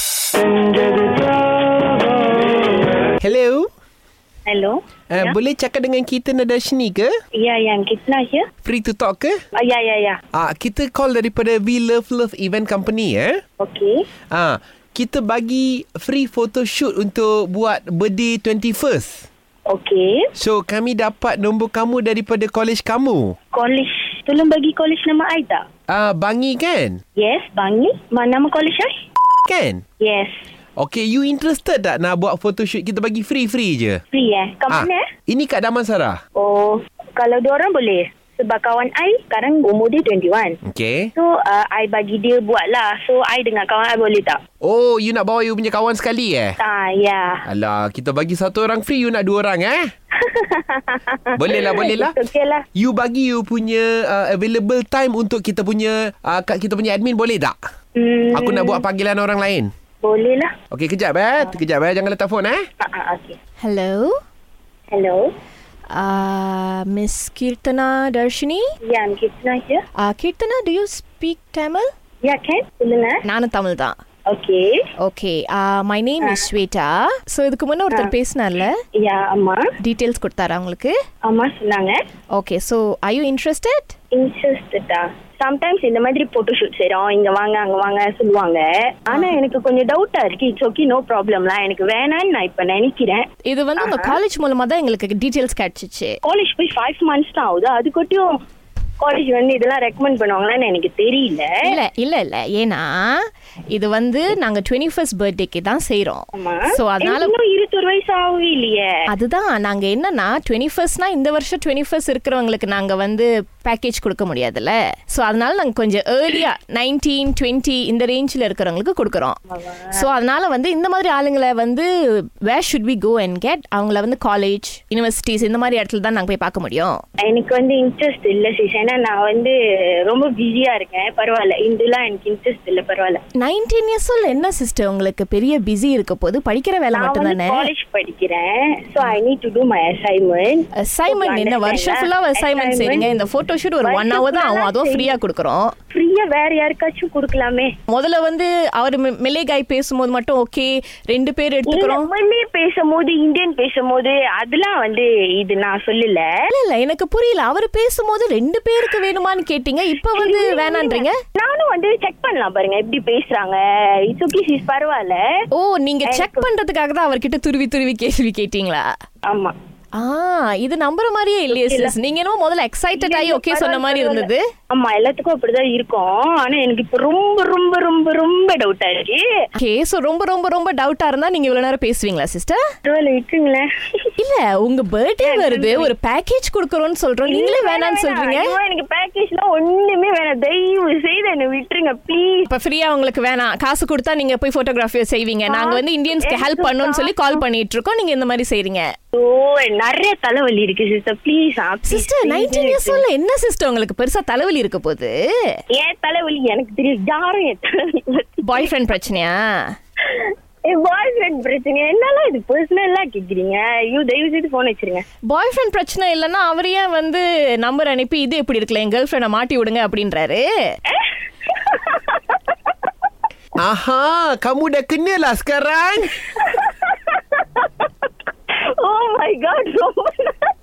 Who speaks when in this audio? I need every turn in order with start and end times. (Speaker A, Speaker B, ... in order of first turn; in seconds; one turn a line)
Speaker A: 3.2-3.7
Speaker B: 4.5-5.4
Speaker A: 5.1-7.1
Speaker B: 7.3-8.5
Speaker A: 8.6-9.3
Speaker B: 9.6-10.2
Speaker A: 10.3-13.4
Speaker B: 13.6-14.1
Speaker A: 14.3-19.3
Speaker B: 19.7-20.3
Speaker A: 20.4-23.4
Speaker B: 23.5-25.6
Speaker A: 25.9-27.0
Speaker B: 27.2-28.9
Speaker A: 29.5-29.8
Speaker B: 30.0-30.5
Speaker A: 30.8-34.0
Speaker B: 34.1-35.1
Speaker A: 34.7-36.2
Speaker B: 36.4-40.6
Speaker A: 40.6-41.1
Speaker B: 41.2-44.4
Speaker A: 44.6-46.6
Speaker B: 46.6-47.4
Speaker A: 47.5-49.9
Speaker B: 50.2-52.6
Speaker A: 51.4-52.1
Speaker A: 52.8-57.5
Speaker B: 58.0-58.8
Speaker A: 58.3-59.7
Speaker B: 60.0-60.5
Speaker A: 60.7-62.6
Speaker B: 62.8-63.4
Speaker C: 63.6-64.1
Speaker B: 64.9-65.3
Speaker C: 65.9-68.6
Speaker B: 68.8-69.8
Speaker C: 70.0-71.9
Speaker B: 72.2-73.2
Speaker C: 73.2-74.0
Speaker B: 74.3-74.9
Speaker C: 75.0-78.8
Speaker B: 76.2-76.5
Speaker B: 79.0-79.7
Speaker C: 79.8-80.9
Speaker B: 81.2-82.0
Speaker C: 82.3-83.9
Speaker B: 84.1-94.2
Speaker C: 93.5-96.1
Speaker B: 96.2-98.3
Speaker B: 99.0-101.6
Speaker C: 101.7-103.1
Speaker C: 103.7-107.3
Speaker B: 106.4-108.9
Speaker C: 109.1-119.4
Speaker B: 119.5-120.1
Speaker C: 120.0-121.9
Speaker C: 122.5-127.0
Speaker B: 127.2-129.6
Speaker B: 130.1-133.2
Speaker C: 133.4-137.7
Speaker B: 136.9-143.1
Speaker C: 140.8-145.8
Speaker B: 143.8-145.2
Speaker B: 145.9-147.7
Speaker C: 147.9-152.1
Speaker B: 151.7-156.3
Speaker C: 156.5-161.2
Speaker B: 160.1-165.2
Speaker C: 165.5-168.9
Speaker B: 166.1-166.5
Speaker B: 169.3-169.6
Speaker C: 170.0-174.4
Speaker B: 171.5-171.9
Speaker B: 173.0-179.2
Speaker C: 179.6-182.6
Speaker B: 182.8-183.7
Speaker C: 184.2-188.5
Speaker B: 185.2-185.9
Speaker B: 187.3-192.5
Speaker C: 192.5-198.8
Speaker B: 195.5-197.4
Speaker B: 199.1-203.0
Speaker C: 201.9-205.1
Speaker B: 205.7-208.7
Speaker C: 208.4-209.4
Speaker B: 210.1-215.0
Speaker C: 215.3-220.4
Speaker B: 220.9-222.7
Speaker A: 223.6-226.2
Speaker B: 226.4-227.9
Speaker B: 228.8-230.5